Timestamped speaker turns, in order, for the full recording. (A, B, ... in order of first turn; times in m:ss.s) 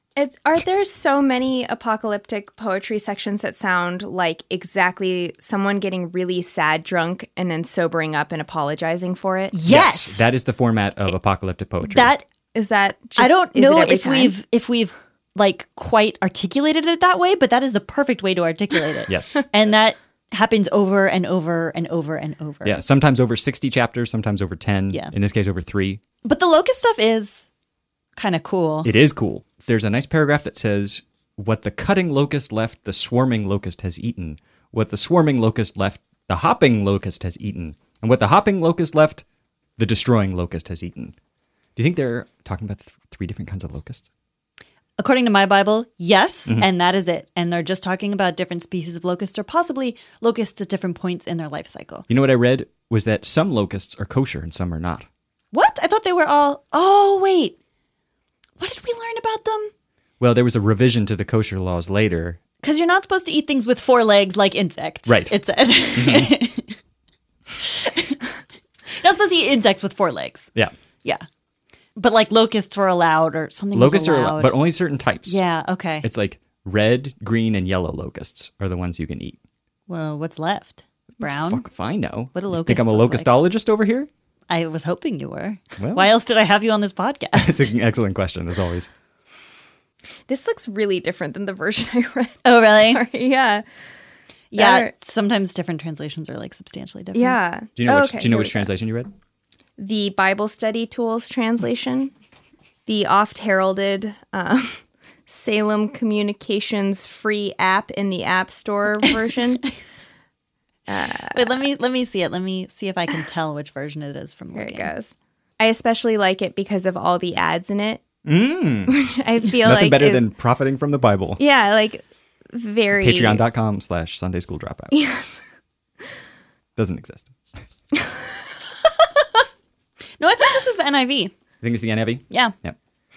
0:00.2-0:09.6 A
0:09.5-0:10.3 B
0:09.7-0:12.1 C
0:11.9-0:12.2 B
0:12.6-0:14.3 A
0:13.2-0:22.8 B
0:19.1-0:19.4 C
0:22.6-0:26.0 C
0:26.2-0:27.5 B
0:28.2-0:28.9 B
0:28.8-0:39.2 C
0:39.8-0:41.2 C
0:41.8-0:44.1 C
0:45.0-0:52.1 B
0:52.1-0:55.1 C
0:55.5-0:57.6 B
0:58.6-0:59.7 B
1:00.2-1:02.4 C
1:02.6-1:06.8 B
1:05.1-1:05.4 C
1:06.0-1:06.3 C
1:07.6-1:08.2 B
1:08.9-1:10.5 B
1:12.0-1:14.6 B
1:13.7-1:15.4 C
1:15.3-1:16.1 B
1:16.0-1:19.4 C
1:19.9-1:21.6 B
1:21.2-1:24.1 C
1:22.3-1:23.3 B
1:24.5-1:27.7 B
1:25.8-1:26.1 C
1:27.4-1:28.9 C
1:30.3-1:33.6 A
1:32.4-1:33.0 B
1:34.5-1:37.4 B
1:34.5-1:34.9 A
1:37.2-1:38.7 A
1:37.8-1:39.1 C
1:39.8-1:42.1 A
1:42.9-1:49.7 A
1:50.9-1:51.6 A
1:51.3-1:54.9 B
1:54.6-1:58.0 A
1:58.2-1:59.0 C
1:58.9-2:00.3 A
1:59.6-2:01.4 C
2:01.4-2:03.4 A
2:02.9-2:05.1 C
2:04.9-2:05.4 A
2:06.8-2:07.4 C
2:07.9-2:08.2 A
2:10.2-2:11.3 B
2:11.6-2:12.8 C